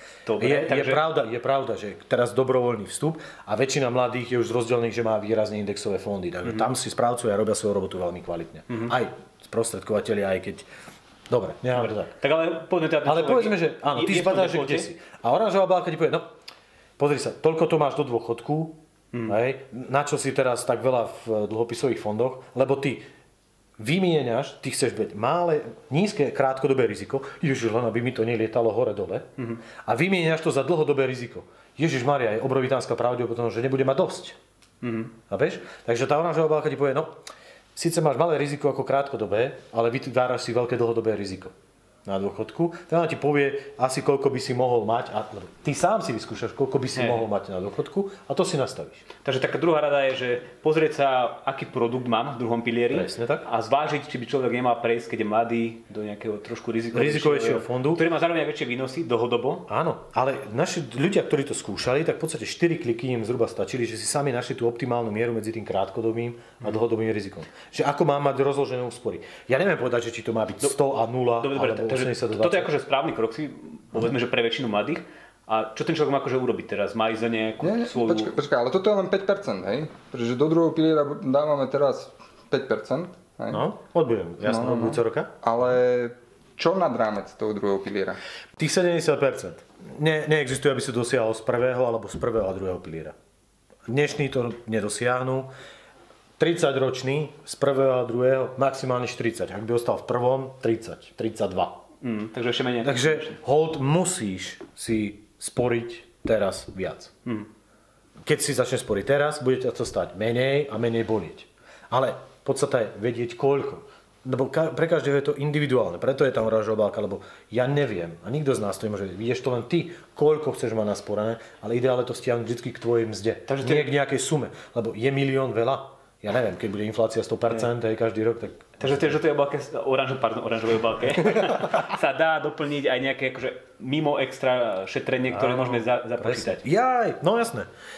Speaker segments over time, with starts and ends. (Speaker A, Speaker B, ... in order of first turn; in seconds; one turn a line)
Speaker A: 0.2-1.0
Speaker B: 0.4-10.7
Speaker A: 8.7-8.9
Speaker B: 11.3-12.1
Speaker A: 11.7-14.9
Speaker B: 13.0-16.3
Speaker B: 17.0-23.1
Speaker B: 23.8-29.3
Speaker B: 29.8-34.4
Speaker A: 34.8-35.1
Speaker B: 35.3-37.2
Speaker B: 37.7-41.5
Speaker B: 42.0-49.0
Speaker A: 47.0-47.3
Speaker A: 49.2-59.7
Speaker B: 52.9-53.4
Speaker B: 56.9-58.0
Speaker B: 59.7-72.7
Speaker A: 71.4-78.3
Speaker C: 77.6-83.6
Speaker B: 83.5-85.3
Speaker C: 84.4-88.2
Speaker B: 88.6-93.1
Speaker B: 93.9-95.5
Speaker B: 96.4-101.8
Speaker A: 102.0-103.4
Speaker B: 102.8-107.1
Speaker B: 108.2-129.2
Speaker A: 123.5-123.9
Speaker A: 128.8-136.6
Speaker B: 131.2-131.8
Speaker B: 135.3-137.7